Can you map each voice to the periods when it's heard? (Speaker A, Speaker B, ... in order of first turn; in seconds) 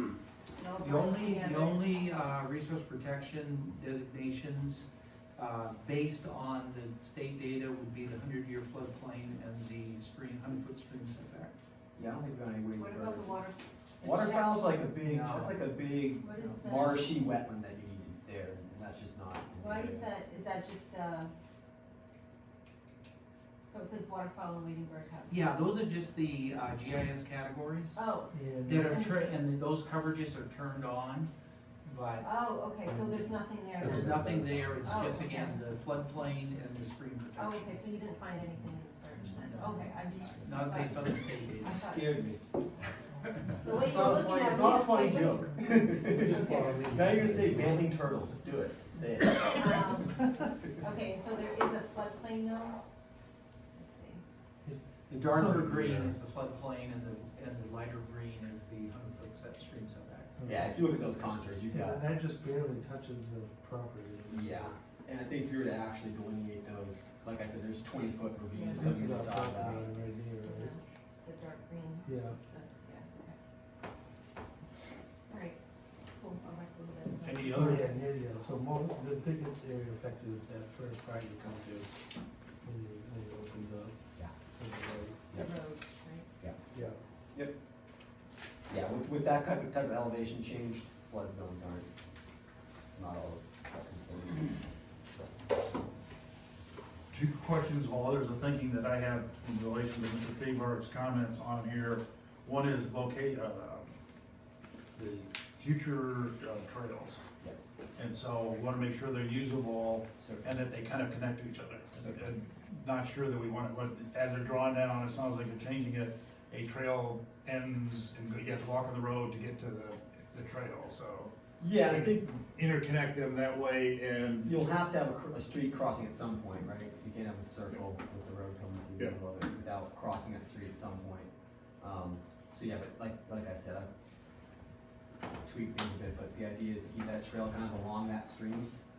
Speaker A: 0.6-2.0, 12.8-14.8, 16.2-17.2, 19.6-21.3, 23.7-25.5, 27.9-29.4, 32.2-34.3, 34.8-36.1, 37.4-42.2, 43.6-45.5, 46.3-46.9, 49.6-50.3, 50.8-52.8, 53.8-54.2, 70.4-73.4, 75.3-75.6, 76.1-77.9, 85.4-86.3
Speaker B: 0.8-11.5, 15.0-15.6, 25.3-28.1, 28.6-31.3, 31.9-32.3, 33.9-38.0, 39.3-41.9, 55.1-60.4
Speaker C: 11.9-13.5, 14.0-20.1, 41.6-42.4, 43.8-49.9, 60.5-62.0, 64.3-69.8, 85.3-85.6, 88.7-91.9, 92.9-94.6, 107.4-107.7, 110.2-110.5, 112.0-112.2, 121.6-122.3, 124.4-133.9, 135.4-138.7
Speaker D: 28.3-29.1, 33.8-35.0, 46.0-47.8, 50.1-50.5, 54.6-56.1, 60.4-60.8, 61.7-64.8, 68.7-70.8, 72.1-72.4, 77.5-81.9, 82.6-85.4, 86.7-87.0
Speaker E: 77.2-77.8, 97.1-103.9, 105.0-107.2, 108.0-124.5